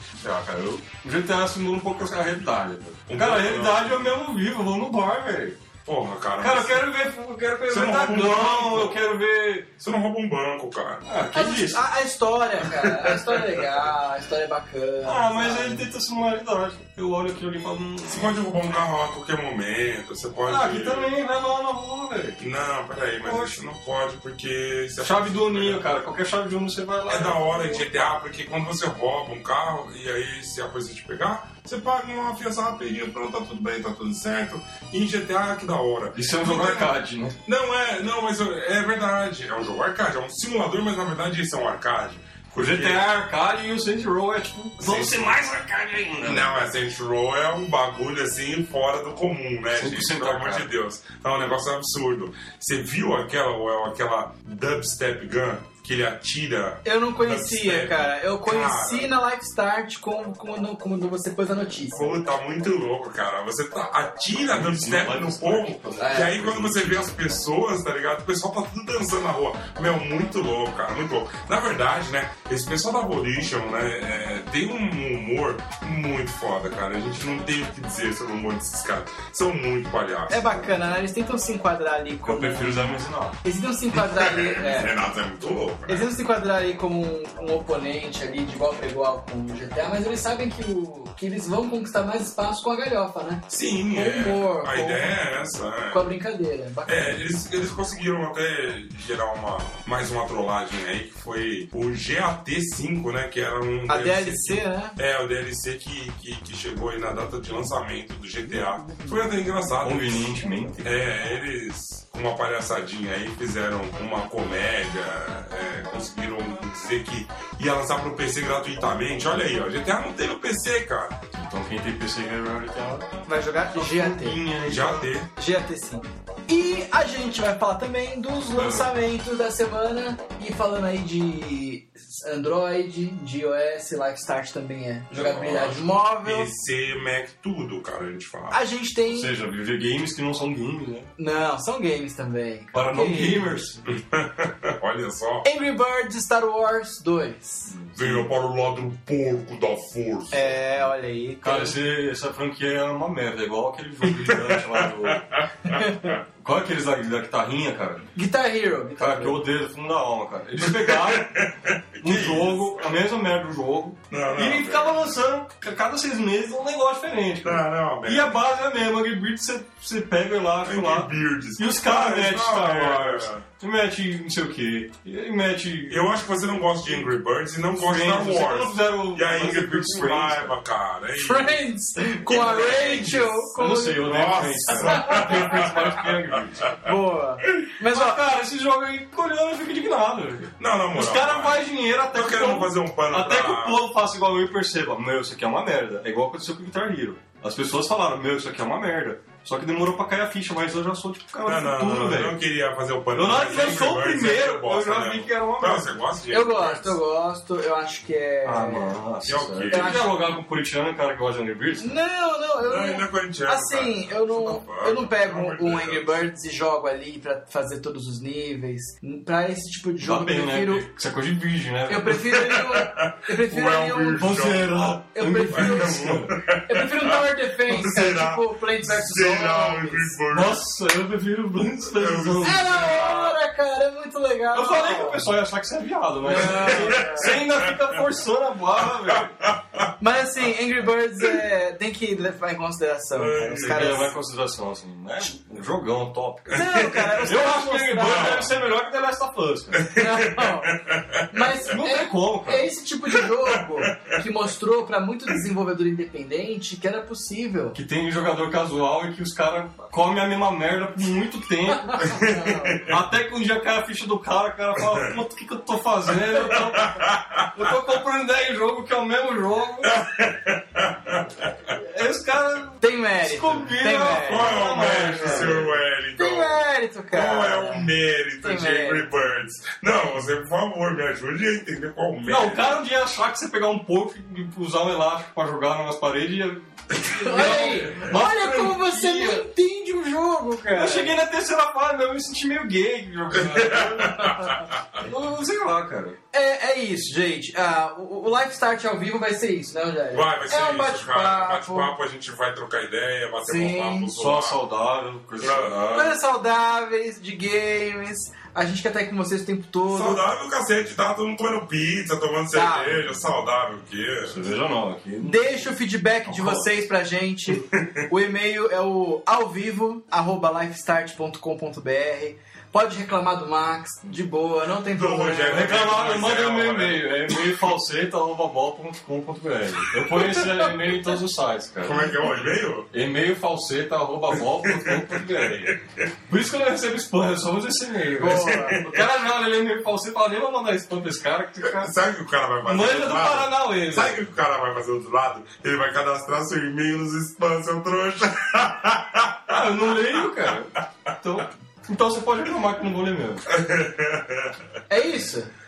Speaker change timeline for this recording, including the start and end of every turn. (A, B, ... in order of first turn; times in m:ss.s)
0:00.2-0:05.6 A
0:03.1-0:04.1 B
0:05.8-0:06.8 B
0:06.4-0:09.7 A
0:07.7-0:09.0 B
0:09.8-0:11.1 B
0:11.0-0:11.8 A
0:11.3-0:15.9 C
0:12.8-0:13.4 B
0:15.0-0:18.4 A
0:18.1-0:21.1 B
0:20.4-0:22.4 A
0:22.4-0:25.8 B
0:23.2-0:23.6 A
0:25.0-0:27.8 A
0:27.1-0:36.9 B
0:36.1-0:37.4 A
0:37.4-0:43.0 B
0:42.5-0:46.5 A
0:44.8-0:45.4 B
0:46.2-0:59.1 B
0:49.7-0:50.7 A
0:56.8-1:02.0 C
1:01.9-1:20.8 B
1:04.5-1:07.4 A
1:06.0-1:06.4 C
1:20.3-1:25.0 C
1:22.2-1:23.4 A
1:24.0-1:26.1 B
1:25.9-1:35.2 C
1:33.5-1:36.0 B
1:35.9-1:37.2 C
1:36.8-2:01.1 B
1:43.9-1:45.0 C
1:49.8-1:50.9 A
2:01.3-2:03.0 A
2:03.2-2:04.4 C
2:03.7-2:05.1 A
2:04.6-2:05.3 B
2:05.3-2:16.5 C
2:08.6-2:08.9 A
2:15.1-2:18.6 B
2:18.5-2:19.3 C
2:19.1-2:21.1 A
2:21.2-2:23.5 C
2:22.7-2:23.8 A
2:23.8-2:25.4 B
2:25.4-2:27.7 C
2:27.7-2:28.2 A
2:27.9-2:30.6 B
2:30.3-2:31.8 C
2:31.4-2:35.2 A
2:34.1-2:36.1 B
2:35.6-2:36.2 C
2:36.4-2:38.1 A
2:38.2-2:39.4 C
2:39.0-2:41.3 A
2:40.6-2:42.6 B
2:42.0-2:56.1 A
2:44.1-2:45.0 B
2:47.4-2:48.4 B
2:50.6-2:53.4 B
2:55.9-3:01.6 B
2:57.8-3:00.5 A
3:01.2-3:05.7 C
3:02.2-3:03.5 B
3:03.6-3:06.7 A
3:04.0-3:06.9 B
3:06.8-3:08.2 C
3:07.8-3:22.4 A
3:10.6-3:13.8 B
3:21.4-3:27.0 B
3:23.1-3:25.9 A
3:26.3-3:29.0 C
3:28.4-3:31.9 A
3:29.2-3:30.0 B
3:29.7-3:30.1 C
3:31.8-3:40.8 C
3:32.6-3:36.2 B
3:40.0-3:42.4 A
3:41.9-3:44.4 C
3:42.4-3:44.7 B
3:44.1-3:46.3 A
3:45.1-3:50.2 C
3:45.5-3:50.6 B
3:50.3-3:53.3 A
3:51.6-3:53.1 B
3:52.4-3:55.3 C
3:54.5-3:59.3 A
3:56.2-3:57.4 C
3:56.3-3:58.0 B
3:58.8-3:59.9 B
4:00.0-4:04.1 C
4:03.2-4:03.9 B
4:03.6-4:09.9 A
4:06.5-4:07.3 B
4:06.5-4:08.5 C
4:08.0-4:08.5 B
4:09.8-4:11.5 B
4:09.9-4:17.8 C
4:11.6-4:12.7 A
4:13.2-4:14.2 B
4:17.7-4:22.1 A
4:21.7-4:22.9 C
4:22.0-4:23.0 B
4:22.8-4:30.0 A
4:24.8-4:25.1 B
4:26.1-4:27.7 B
4:29.8-4:31.8 B
4:31.7-4:35.8 A
4:32.8-4:35.6 C
4:34.2-4:42.8 B
4:36.2-4:37.9 C
4:38.4-4:39.1 C
4:42.3-4:49.5 A
4:47.0-4:51.2 C
4:47.6-4:48.0 B
4:50.7-4:56.2 A
4:53.3-4:55.1 B
4:54.2-4:54.6 C
4:56.3-5:01.9 C
5:00.1-5:04.6 B
5:03.4-5:04.1 C
5:04.1-5:06.2 A
5:05.4-5:05.8 B
5:05.9-5:10.2 C
5:09.9-5:14.4 B
5:12.5-5:13.0 C
5:14.3-5:15.7 A
5:15.2-5:25.8 C
5:16.2-5:16.8 A
5:17.7-5:18.0 B
5:24.9-5:27.4 B
5:25.5-5:32.3 A
5:30.2-5:30.7 C
5:31.8-5:32.9 B
5:32.9-5:35.8 A
5:34.6-5:36.0 B
5:36.3-5:41.9 A
5:38.2-5:38.9 C
5:38.3-5:39.0 B
5:41.6-5:50.6 B
5:42.6-5:44.2 A
5:49.5-5:53.4 A
5:53.5-5:54.6 B
5:54.9-5:55.5 C